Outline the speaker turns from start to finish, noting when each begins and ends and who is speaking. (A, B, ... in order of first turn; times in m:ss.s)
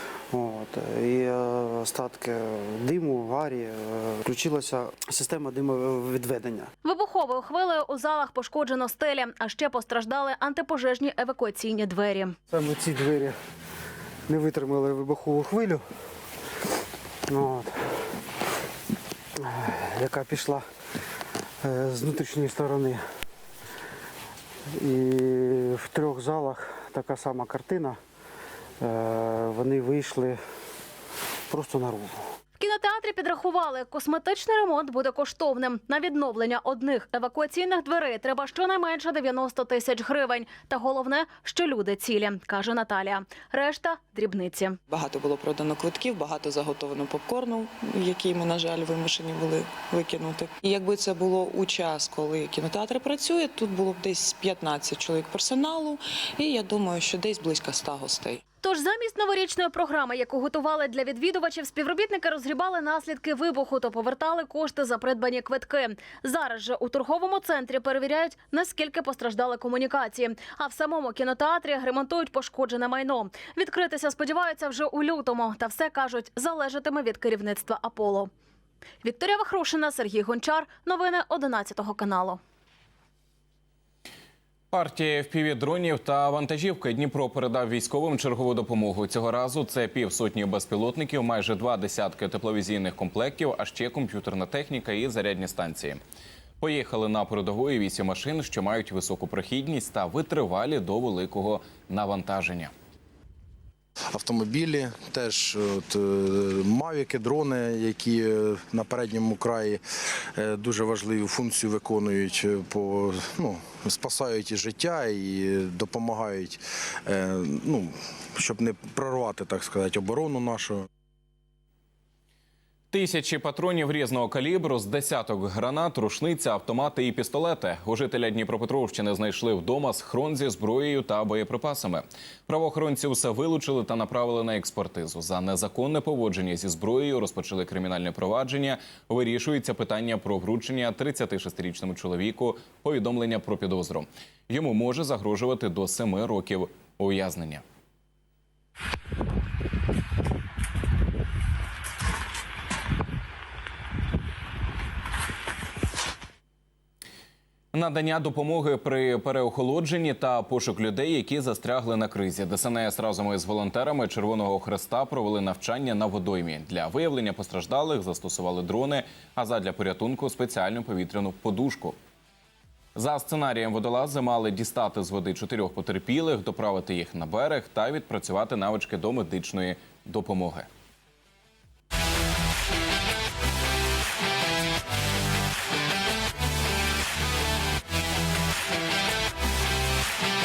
0:00.3-0:06.7 A
0:06.8-0:12.4 B
0:12.5-0:13.3 A
0:14.3-0:15.8 A
0:17.3-0:17.8 A
0:19.4-0:20.6 A
0:21.6-0:23.0 A
0:24.8-0:28.0 A
0:28.8-0:30.4 A
0:31.5-0:32.2 A
0:32.6-0:44.8 B
0:44.9-0:58.4 C
0:58.6-1:18.3 B
1:19.0-1:22.4 B
1:24.7-1:36.0 D
1:36.6-1:42.7 D
1:44.1-1:49.8 E
1:50.4-2:00.8 E
2:02.9-2:27.6 D
2:37.7-2:52.0 D
2:53.0-3:00.7 D